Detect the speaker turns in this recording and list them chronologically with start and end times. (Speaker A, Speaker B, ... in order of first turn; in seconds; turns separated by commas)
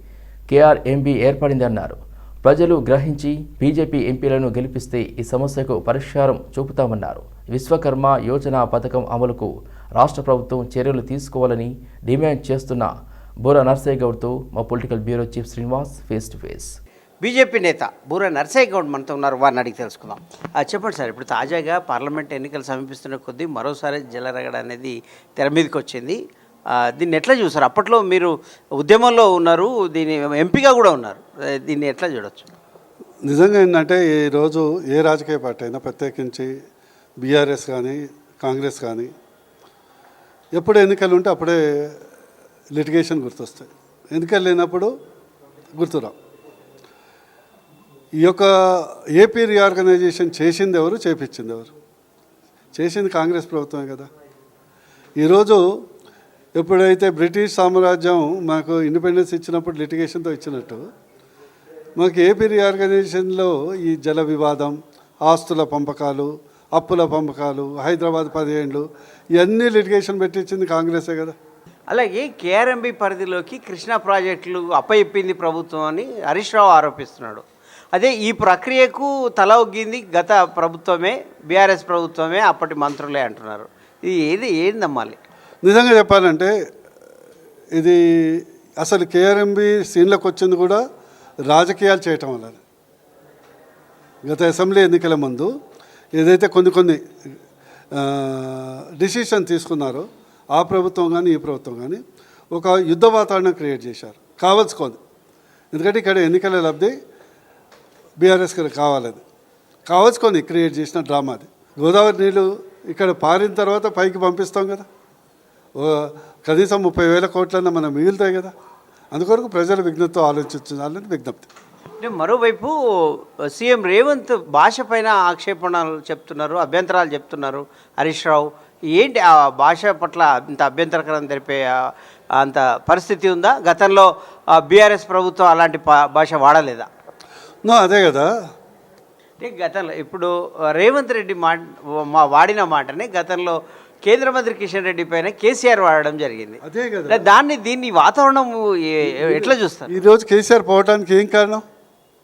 Speaker A: 0.5-12.9, Speaker A: 13.4-16.7, Speaker B: 17.2-26.2, Speaker B: 27.0-32.5, Speaker C: 33.2-36.5, Speaker C: 37.2-39.1, Speaker C: 40.5-41.9, Speaker C: 42.7-44.9, Speaker C: 45.8-46.1, Speaker C: 48.2-51.7, Speaker C: 52.8-54.1, Speaker C: 55.2-55.6, Speaker C: 56.6-60.8, Speaker C: 62.0-68.8, Speaker C: 69.4-71.4, Speaker B: 71.9-85.2, Speaker C: 85.6-86.5, Speaker C: 87.8-90.8, Speaker C: 91.5-92.6, Speaker C: 94.3-95.5, Speaker C: 96.2-97.0, Speaker C: 98.0-102.0, Speaker C: 102.5-105.0, Speaker C: 105.7-106.9, Speaker C: 108.2-109.2, Speaker C: 109.9-114.8, Speaker C: 115.8-118.5, Speaker C: 119.1-121.5, Speaker B: 122.0-131.7, Speaker B: 132.4-136.9, Speaker C: 137.7-138.3, Speaker B: 139.4-149.9, Speaker C: 146.6-147.3, Speaker C: 149.1-151.6